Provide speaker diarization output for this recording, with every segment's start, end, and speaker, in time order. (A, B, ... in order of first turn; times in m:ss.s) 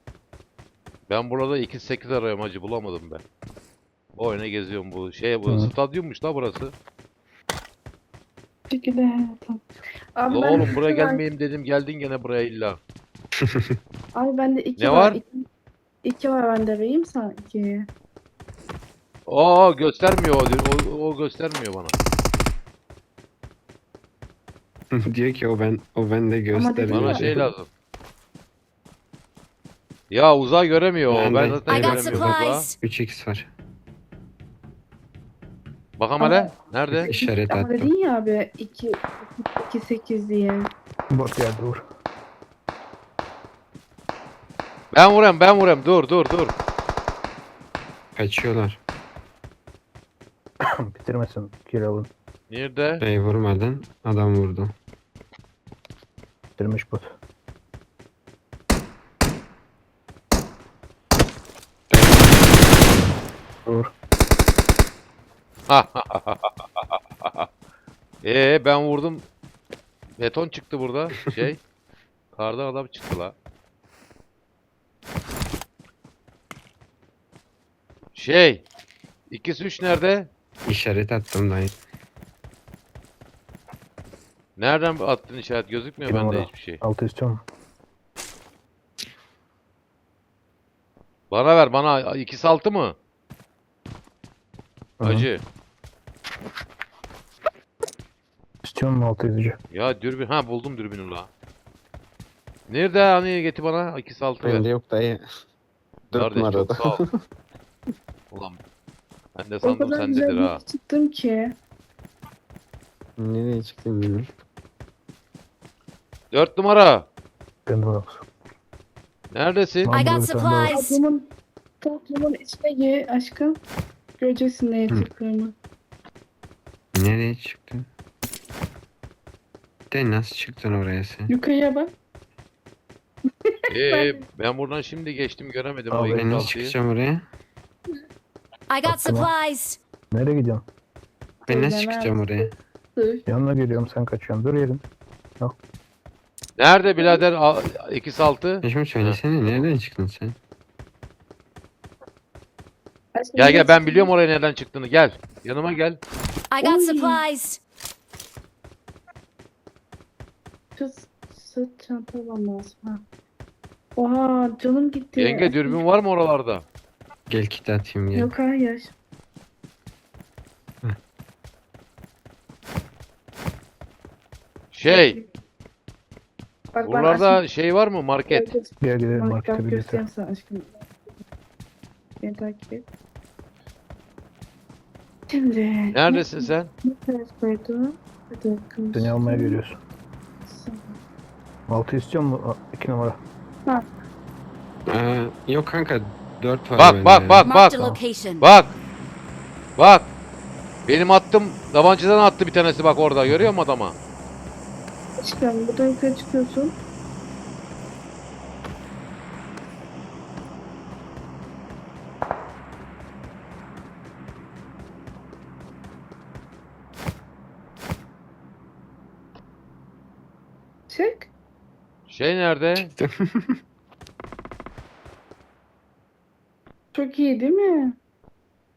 0:01.1-0:03.2 A
0:04.2-0:06.7 A
0:05.5-0:05.7 B
0:08.7-0:09.6 C
0:10.2-0:11.2 C
0:10.3-0:12.8 A
0:13.4-0:13.8 D
0:14.2-0:15.4 C
0:14.8-0:15.2 A
0:16.0-0:17.9 C
0:19.3-0:21.9 A
0:24.9-0:27.5 D
0:26.5-0:27.5 C
0:26.9-0:27.7 A
0:30.1-0:32.7 A
0:31.1-0:33.5 D
0:31.7-0:32.7 E
0:36.0-0:37.1 A
0:36.2-0:40.7 C
0:37.0-0:37.9 D
0:41.1-0:41.9 B
0:44.9-0:46.5 A
0:48.2-0:48.8 D
0:50.9-0:52.1 B
0:52.5-0:53.0 A
0:53.0-0:54.7 D
0:56.6-0:57.2 B
1:01.9-1:02.8 D
1:03.7-1:03.9 B
1:05.7-1:06.5 A
1:07.2-1:07.5 A
1:08.2-1:09.3 A
1:10.2-1:11.6 A
1:12.3-1:13.3 A
1:18.2-1:18.6 A
1:19.3-1:20.3 A
1:20.7-1:21.8 D
1:24.6-1:26.8 A
1:26.1-1:27.4 B
1:31.3-1:33.0 A
1:35.0-1:35.3 B
1:35.0-1:35.4 A
1:38.6-1:39.6 B
1:39.7-1:41.3 A
1:42.7-1:44.6 A
1:44.4-1:45.2 D
1:46.1-1:47.1 D
1:46.1-1:47.0 A
1:48.3-1:48.6 A
1:49.4-1:50.6 A
1:49.6-1:51.6 C
1:53.2-1:54.3 D
1:56.3-1:57.1 A
1:57.7-1:58.2 B
1:59.3-1:59.9 A
1:59.9-2:00.8 B
1:59.9-2:01.0 E
2:00.7-2:01.2 C
2:01.8-2:03.6 C
2:04.2-2:05.6 C
2:07.0-2:07.9 D
2:09.9-2:11.3 D
2:11.3-2:11.9 C
2:13.7-2:16.8 A
2:13.8-2:14.2 C
2:15.9-2:16.5 B
2:16.1-2:17.3 D
2:18.7-2:19.8 E
2:18.9-2:19.3 B
2:20.1-2:20.6 B
2:21.5-2:23.3 C
2:21.5-2:22.5 D
2:23.3-2:24.8 B
2:26.6-2:29.2 A
2:27.0-2:27.2 C
2:28.6-2:30.4 D
2:33.2-2:34.1 C
2:33.4-2:36.0 A
2:36.5-2:37.6 E
2:36.6-2:37.2 C
2:40.8-2:43.0 C
2:44.0-2:45.8 C
2:45.2-2:46.6 A
2:47.3-2:48.3 D
2:48.2-2:48.9 C
2:54.7-2:55.2 A
2:54.9-2:55.2 C
2:56.7-2:57.4 C
2:56.8-2:58.5 A
2:58.3-3:00.9 C
2:58.8-3:00.0 B
3:02.2-3:02.9 C
3:05.3-3:09.6 C
3:05.9-3:06.7 A
3:08.9-3:09.8 B
3:10.5-3:11.0 C
3:11.7-3:13.2 B
3:14.9-3:17.4 D
3:16.8-3:17.8 A
3:17.4-3:18.5 E
3:18.4-3:18.8 A
3:19.8-3:20.1 A
3:20.9-3:24.0 A
3:25.2-3:26.8 C
3:40.9-3:41.3 C
3:42.1-3:42.9 A
3:42.8-3:43.6 D
3:46.9-3:48.0 C